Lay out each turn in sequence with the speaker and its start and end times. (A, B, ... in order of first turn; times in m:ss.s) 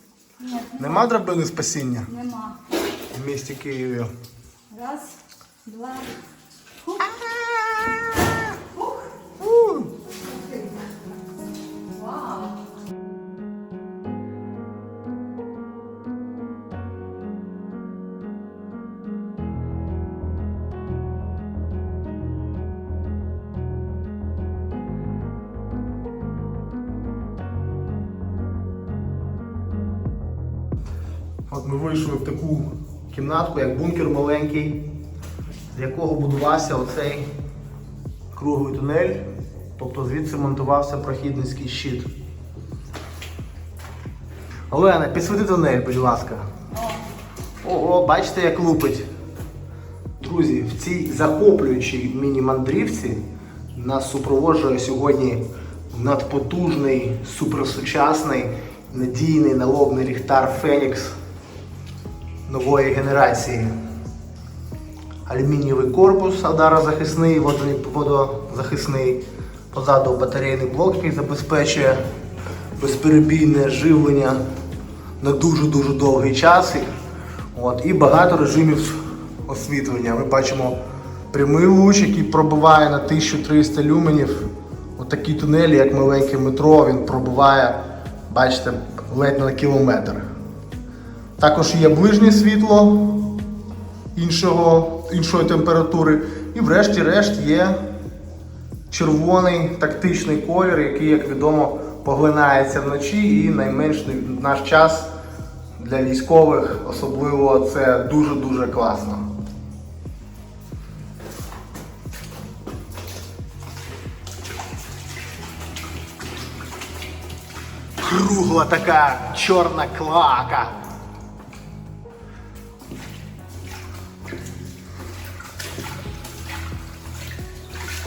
0:00.4-0:01.1 A
0:00.8-0:02.1 B
0:02.0-0:02.6 A
0:03.1-0:04.1 B
0:04.7-0:06.1 A
0:07.0-0:08.5 B
0:09.4-0:09.9 B
0:10.3-0:10.6 A
0:11.9-0:12.6 A
0:31.5-0:34.8 B
0:35.7-0:37.3 B
0:38.3-0:42.1 B
0:44.7-0:46.5 B
0:46.7-0:47.0 A
0:47.6-0:49.1 B
0:50.2-1:01.2 B
1:02.4-1:03.8 B
1:05.3-1:12.0 B
1:12.8-1:14.4 B
1:15.2-1:16.9 B
1:17.5-1:20.8 B
1:21.3-1:30.2 B
1:31.4-1:33.4 B
1:34.1-1:37.8 B
1:38.9-1:45.1 B
1:45.8-1:49.3 B
1:58.0-2:00.8 B